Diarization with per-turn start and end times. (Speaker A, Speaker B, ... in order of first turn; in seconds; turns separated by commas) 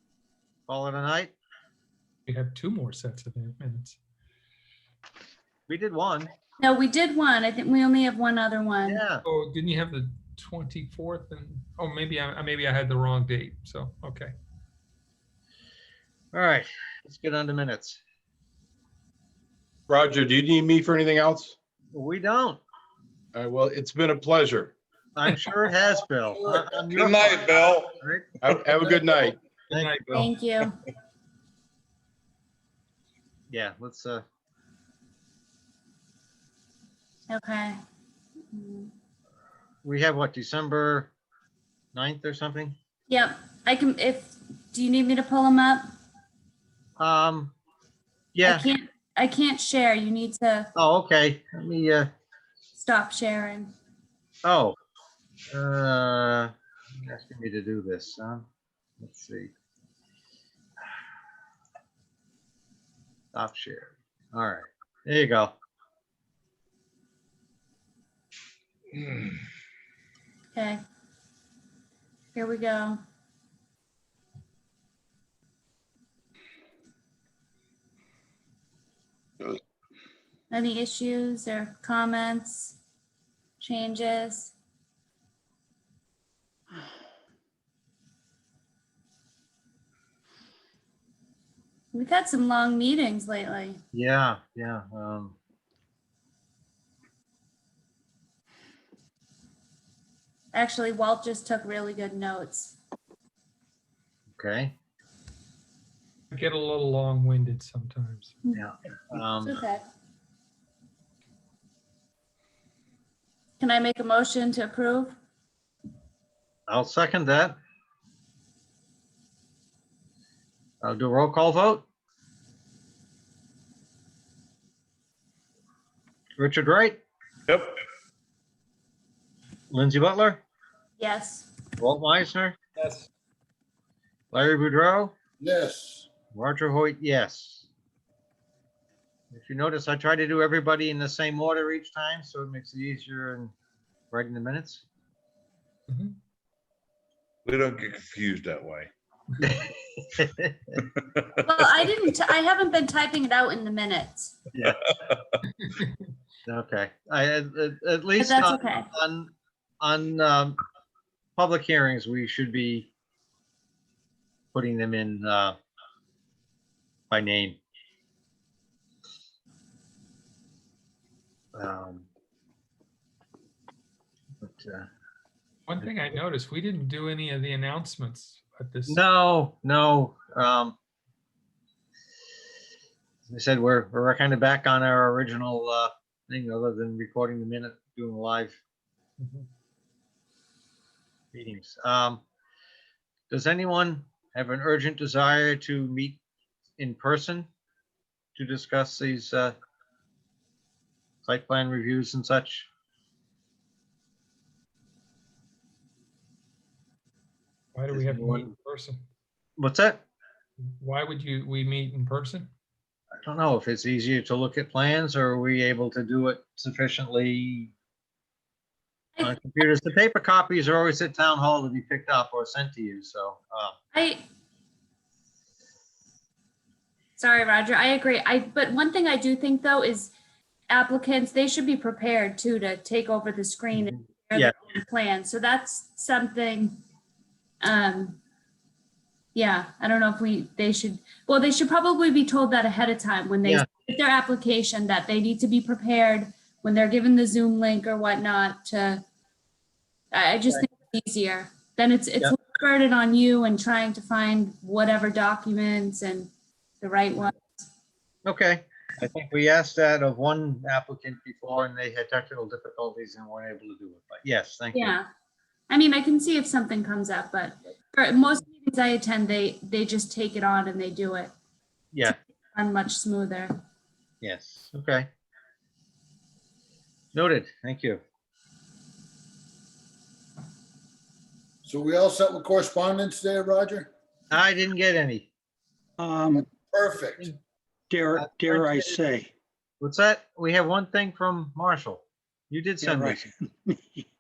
Speaker A: 0.7-1.3, Speaker B: 2.3-4.0, Speaker A: 5.7-6.3, Speaker C: 6.6-9.0, Speaker A: 8.8-9.2, Speaker B: 9.2-14.3, Speaker A: 16.3-18.0, Speaker D: 19.9-21.6, Speaker A: 21.9-22.6, Speaker D: 23.3-24.7, Speaker A: 25.1-28.2, Speaker E: 26.5-27.9, Speaker D: 28.4-29.4, Speaker A: 29.7-30.3, Speaker B: 29.7-30.3, Speaker C: 30.2-30.8, Speaker A: 33.5-34.2, Speaker C: 37.3-37.8, Speaker C: 38.5-38.9, Speaker A: 39.8-41.1, Speaker A: 41.9-42.7, Speaker C: 43.1-45.9, Speaker A: 47.0-47.5, Speaker A: 48.3-48.7, Speaker C: 48.4-50.7, Speaker A: 50.8-52.1, Speaker C: 52.7-53.7, Speaker A: 54.4-54.8, Speaker A: 55.5-58.5, Speaker A: 59.0-59.5, Speaker A: 63.3-65.5, Speaker C: 70.5-70.8, Speaker C: 72.3-73.0, Speaker C: 80.5-82.8, Speaker C: 83.6-84.5, Speaker C: 91.9-93.8, Speaker A: 93.9-95.3, Speaker C: 100.5-102.8, Speaker A: 104.3-104.7, Speaker B: 106.3-108.3, Speaker A: 108.5-109.6, Speaker C: 109.4-109.9, Speaker C: 113.6-115.2, Speaker A: 116.7-117.6, Speaker A: 120.8-121.8, Speaker A: 126.4-127.0, Speaker A: 129.7-130.4, Speaker C: 131.0-131.5, Speaker A: 131.8-132.6, Speaker A: 134.3-135.1, Speaker F: 135.4-136.1, Speaker A: 136.3-137.7, Speaker A: 139.3-143.5, Speaker A: 144.1-144.8, Speaker B: 145.9-146.1, Speaker E: 147.4-148.9, Speaker A: 149.4-150.6, Speaker C: 151.4-154.3, Speaker A: 154.5-154.9, Speaker A: 156.4-160.6, Speaker C: 158.2-158.9, Speaker A: 161.4-162.9, Speaker A: 164.5-165.6, Speaker A: 167.1-167.6, Speaker A: 171.5-172.1, Speaker A: 174.4-174.9, Speaker B: 175.7-179.0, Speaker A: 178.9-180.7, Speaker A: 183.3-188.6, Speaker B: 189.2-189.4, Speaker A: 191.3-192.2, Speaker A: 193.3-196.2, Speaker A: 196.8-197.5, Speaker A: 198.3-199.5, Speaker A: 201.2-202.7, Speaker B: 207.7-209.0, Speaker A: 207.9-208.5, Speaker A: 209.6-210.0, Speaker B: 210.8-212.5, Speaker A: 213.2-217.7, Speaker A: 219.2-223.7, Speaker C: 223.9-224.2, Speaker C: 227.2-230.1, Speaker C: 230.7-236.8, Speaker A: 233.8-234.5, Speaker C: 237.6-238.2, Speaker C: 239.3-249.0, Speaker C: 250.1-257.6, Speaker A: 258.2-264.9, Speaker C: 264.7-265.1, Speaker C: 265.7-271.3, Speaker C: 272.5-273.6, Speaker A: 274.2-275.1, Speaker A: 277.1-278.0, Speaker F: 281.6-283.9, Speaker A: 284.3-285.3, Speaker G: 286.0-286.5, Speaker F: 286.7-287.3, Speaker G: 287.9-289.3, Speaker A: 288.2-289.0, Speaker A: 289.8-293.3, Speaker G: 292.8-294.1